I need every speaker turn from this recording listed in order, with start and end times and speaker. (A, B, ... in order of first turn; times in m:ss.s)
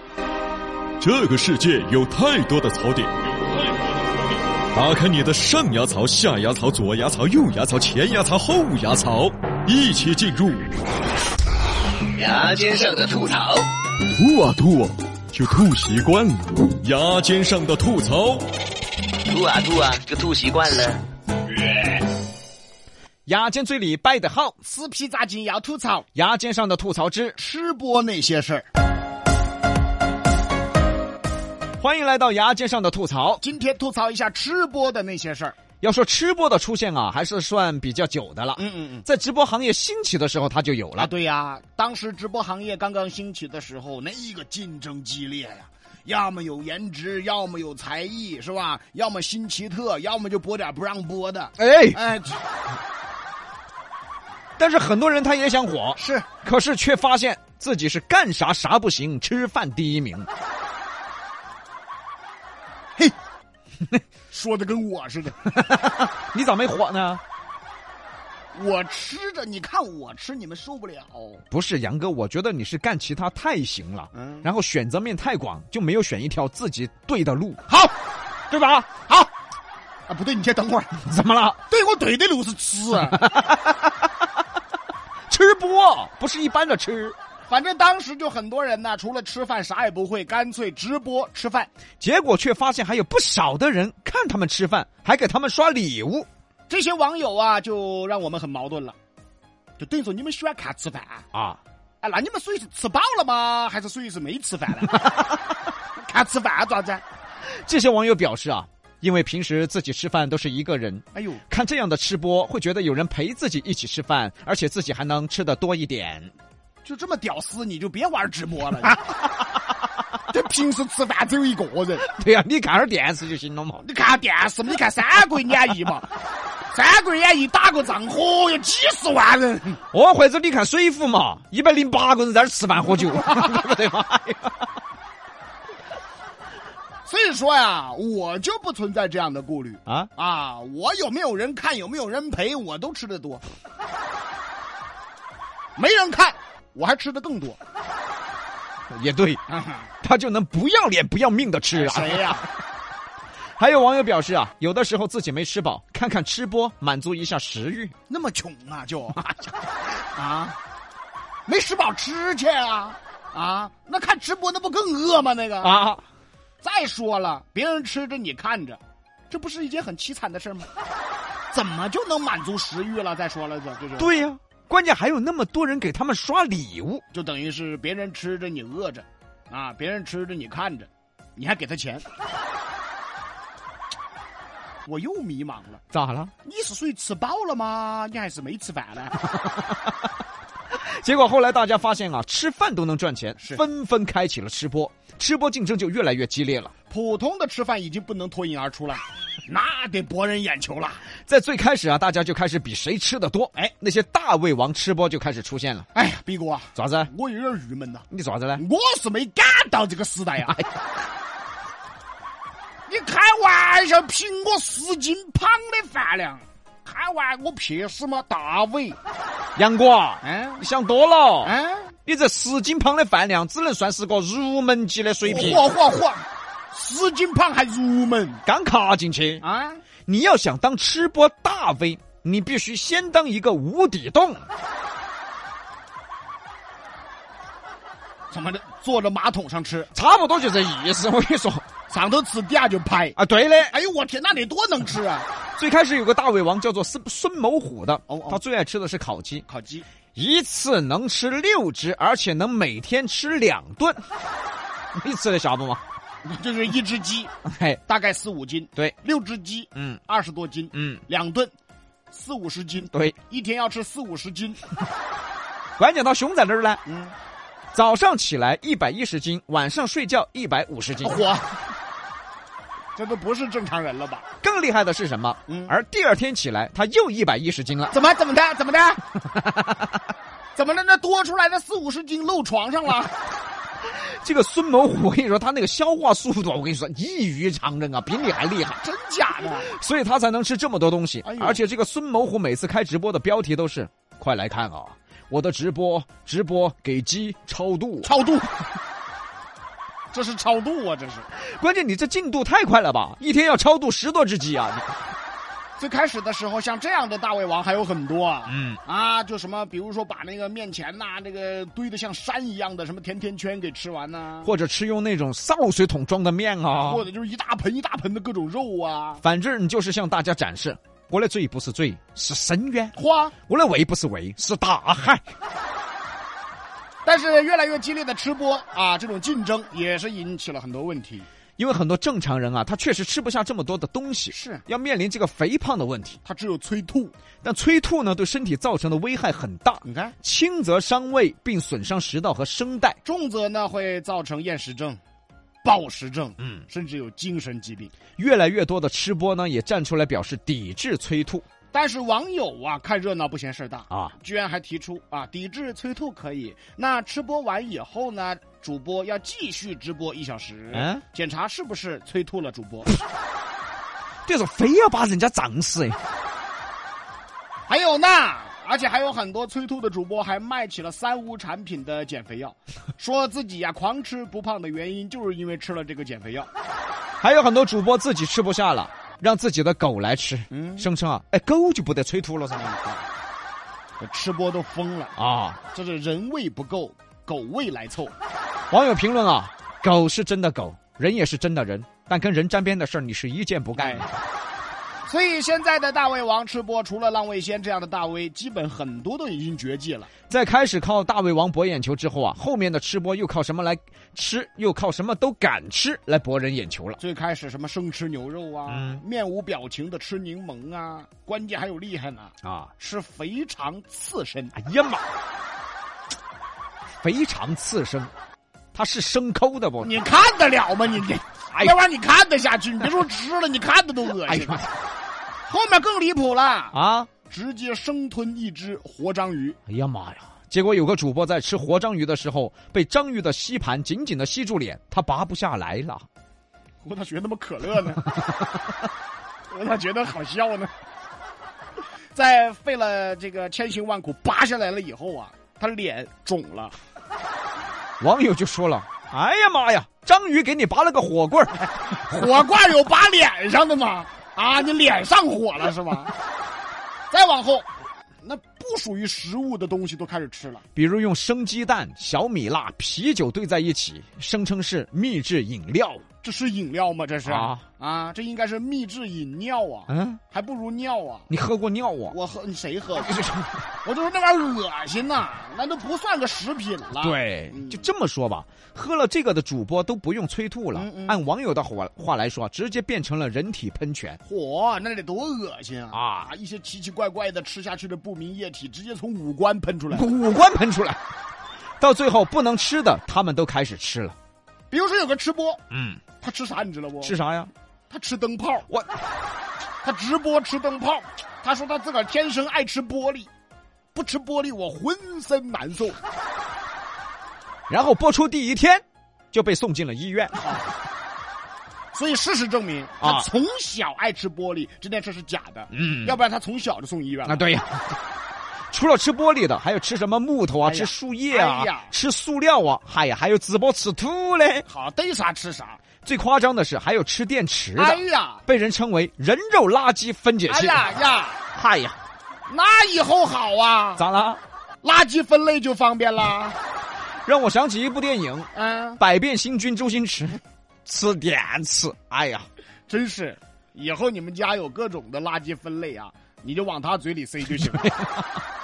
0:01.0-0:03.1 A
0:04.7-0:10.6 A
0:12.1-0:13.7 B
0:14.1-0:18.4 A
0:19.3-0:21.0 B
0:23.2-0:24.6 C
0:24.6-0:26.1 D
0:26.1-0:27.3 C
0:27.4-0:28.7 D
0:31.8-0:33.4 C
0:33.4-0:35.6 D
0:35.8-0:41.1 C
0:38.6-0:39.0 D
0:41.0-0:52.4 D
0:51.6-0:52.0 C
0:54.6-1:00.3 C
0:56.0-0:56.3 D
1:04.3-1:05.5 D
1:05.4-1:07.2 C
1:08.5-1:11.4 D
1:11.5-1:17.6 C
1:14.2-1:14.5 D
1:17.7-1:17.9 D
1:18.5-1:18.9 C
1:19.0-1:19.3 D
1:20.1-1:20.9 D
1:21.0-1:21.6 C
1:21.7-1:23.3 D
1:23.1-1:24.0 C
1:25.3-1:27.2 C
1:27.5-1:31.7 D
1:32.0-1:36.3 C
1:36.7-1:39.0 D
1:39.8-1:41.2 D
1:41.3-1:41.6 C
1:42.0-1:45.1 D
1:46.0-1:47.0 D
1:47.4-1:56.3 C
1:51.1-1:51.4 D
1:56.8-1:59.0 D
2:00.3-2:02.1 D
2:02.0-2:03.8 C
2:03.8-2:06.1 D
2:06.7-2:09.8 D
2:09.9-2:14.6 C
2:17.0-2:23.4 D
2:25.8-2:27.6 D
2:28.9-2:29.4 C
2:29.5-2:29.9 D
2:30.0-2:32.4 C
2:31.7-2:32.4 D
2:33.6-2:37.9 C
2:38.1-2:39.2 D
2:40.1-2:40.6 D
2:41.5-2:45.8 D
2:45.6-2:46.0 C
2:46.6-2:48.8 D
2:49.3-2:50.7 D
2:51.5-2:54.2 D
2:54.0-2:57.0 C
2:57.1-3:02.0 D
3:04.8-3:05.8 D
3:05.9-3:06.3 C
3:06.4-3:09.2 D
3:09.4-3:09.9 C
3:10.7-3:16.7 C
3:16.9-3:21.0 D
3:21.2-3:25.8 C
3:25.9-3:28.0 D
3:26.8-3:27.1 C
3:28.1-3:28.6 C
3:28.6-3:30.6 D
3:32.9-3:39.0 D
3:39.6-3:45.6 C
3:40.2-3:40.6 D
3:41.4-3:41.9 D
3:45.2-3:48.4 D
3:48.4-3:49.4 C
3:49.4-3:49.8 D
3:50.0-3:54.4 C
3:58.3-3:59.9 D
3:59.9-4:01.7 C
4:01.9-4:03.2 D
4:03.2-4:03.7 C
4:03.7-4:05.3 D
4:05.6-4:09.4 C
4:08.1-4:08.4 D
4:09.5-4:09.8 D
4:10.1-4:14.0 C
4:14.9-4:15.8 C
4:16.2-4:17.3 D
4:17.4-4:17.8 C
4:17.9-4:21.5 D
4:20.7-4:21.0 C
4:22.1-4:24.6 D
4:22.9-4:23.2 C
4:25.8-4:26.8 C
4:26.8-4:27.1 D
4:27.7-4:31.2 C
4:31.0-4:31.6 D
4:32.9-4:34.2 D
4:34.4-4:37.9 C
4:35.5-4:35.7 D
4:37.9-4:39.0 D
4:39.4-4:39.8 C
4:40.6-4:43.1 D
4:43.8-4:48.8 C
4:48.8-4:49.7 D
4:49.5-4:58.1 C
4:51.2-4:51.6 D
4:58.0-4:58.6 D
5:00.1-5:01.3 D
5:01.3-5:04.9 C
5:05.8-5:14.5 D
5:08.5-5:08.8 C
5:14.4-5:17.1 C
5:16.8-5:19.2 D
5:19.2-5:25.3 C
5:23.0-5:23.3 D
5:27.0-5:31.2 D
5:31.6-5:36.2 C
5:34.3-5:34.6 D
5:36.2-5:37.1 D
5:37.4-5:43.0 C
5:39.8-5:40.1 D
5:43.0-5:45.0 D
5:45.6-5:47.9 D
5:48.2-5:51.4 C
5:51.7-6:02.9 D
6:00.7-6:01.0 C
6:04.2-6:06.0 C
6:07.7-6:16.5 D
6:17.2-6:22.8 C
6:20.5-6:20.8 D
6:22.7-6:23.0 D
6:24.0-6:25.1 D
6:25.2-6:25.6 C
6:25.7-6:28.1 D
6:28.7-6:34.1 C
6:33.8-6:34.1 D
6:35.1-6:40.1 D
6:40.3-6:47.0 C
6:47.0-6:54.5 D
6:48.7-6:49.0 C
6:52.4-6:52.7 C
6:54.5-6:55.0 C
6:57.0-6:58.1 C
6:58.7-7:00.0 C
6:59.8-7:04.6 D
7:01.5-7:01.8 C
7:04.2-7:04.7 C
7:05.5-7:09.6 D
7:06.7-7:07.1 C
7:09.7-7:16.0 C
7:16.8-7:18.0 D
7:18.2-7:18.5 C
7:19.5-7:20.7 D
7:22.1-7:26.8 D
7:28.0-7:31.9 C
7:32.0-7:36.1 D
7:37.1-7:37.7 D
7:38.2-7:40.6 D
7:40.7-7:46.0 C
7:46.2-7:51.3 D
7:47.2-7:47.6 C
7:49.9-7:50.2 C
7:51.3-7:52.2 C
7:52.1-7:53.2 D
7:53.0-7:53.6 C
7:53.8-7:57.8 D
7:57.0-8:04.2 C
8:00.7-8:01.2 D
8:04.2-8:10.1 D
8:05.9-8:06.3 C
8:09.9-8:11.0 C
8:11.8-8:14.2 C
8:14.7-8:15.6 D
8:15.7-8:16.0 C
8:16.2-8:17.2 D
8:17.0-8:17.5 C
8:17.9-8:18.7 D
8:19.8-8:23.3 D
8:23.9-8:26.0 D
8:27.7-8:30.3 C
8:30.3-8:30.7 D
8:31.9-8:37.4 D
8:33.0-8:33.3 C
8:35.7-8:36.2 C
8:37.2-8:37.9 C
8:38.7-8:44.6 C
8:40.6-8:41.9 D
8:44.7-8:45.8 D
8:46.0-8:50.8 C
8:47.8-8:48.4 D
8:50.5-8:51.4 D
8:51.5-8:52.0 C
8:52.5-8:54.0 D
8:54.0-8:54.4 C
8:54.8-8:56.6 D
8:57.2-9:02.5 C
8:58.5-8:59.0 D
9:02.9-9:07.9 D
9:07.6-9:08.2 C